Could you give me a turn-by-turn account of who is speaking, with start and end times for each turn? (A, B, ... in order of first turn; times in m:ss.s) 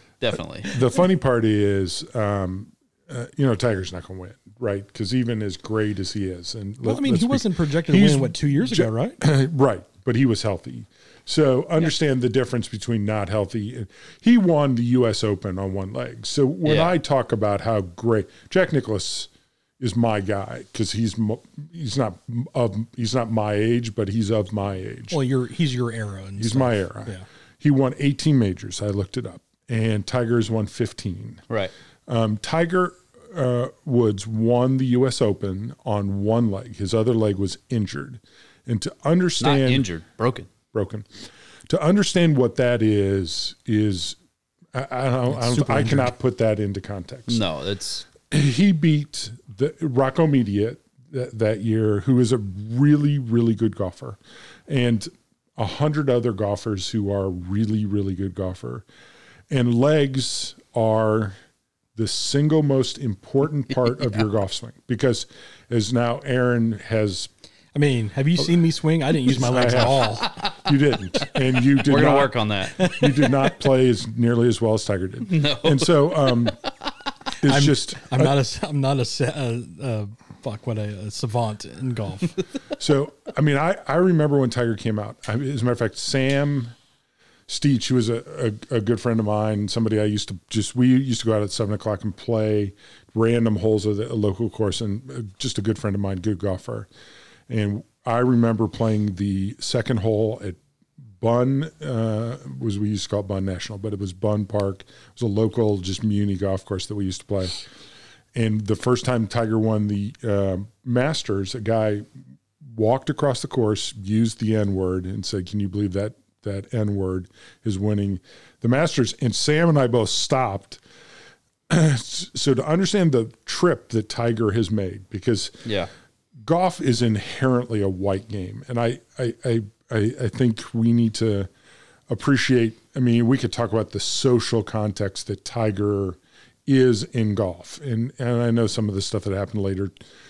0:00.2-0:00.8 A
0:00.7-0:25.2 B
0:06.8-0:09.2 C
0:16.6-0:16.9 A
0:25.1-0:27.2 C
0:26.4-0:31.4 B
0:32.1-0:39.9 B
0:39.4-0:40.5 A
0:40.7-0:41.1 B
0:41.7-0:44.2 B
0:44.7-0:47.4 B
0:45.3-0:46.1 C
0:47.3-0:48.0 A
0:48.3-0:58.8 B
0:59.5-1:01.4 B
1:02.0-1:07.3 B
1:07.7-1:10.3 C
1:09.2-1:16.6 B
1:10.2-1:10.6 A
1:11.7-1:12.9 A
1:12.7-1:13.5 C
1:15.2-1:16.5 A
1:17.4-1:18.4 B
1:17.4-1:22.4 C
1:22.8-1:26.7 B
1:27.5-1:36.9 B
1:37.5-1:40.6 B
1:41.2-1:47.6 B
1:48.4-1:52.0 B
1:52.6-2:00.8 B
2:01.7-2:05.7 B
2:05.6-2:05.9 A
2:06.4-2:11.5 B
2:12.1-2:20.0 B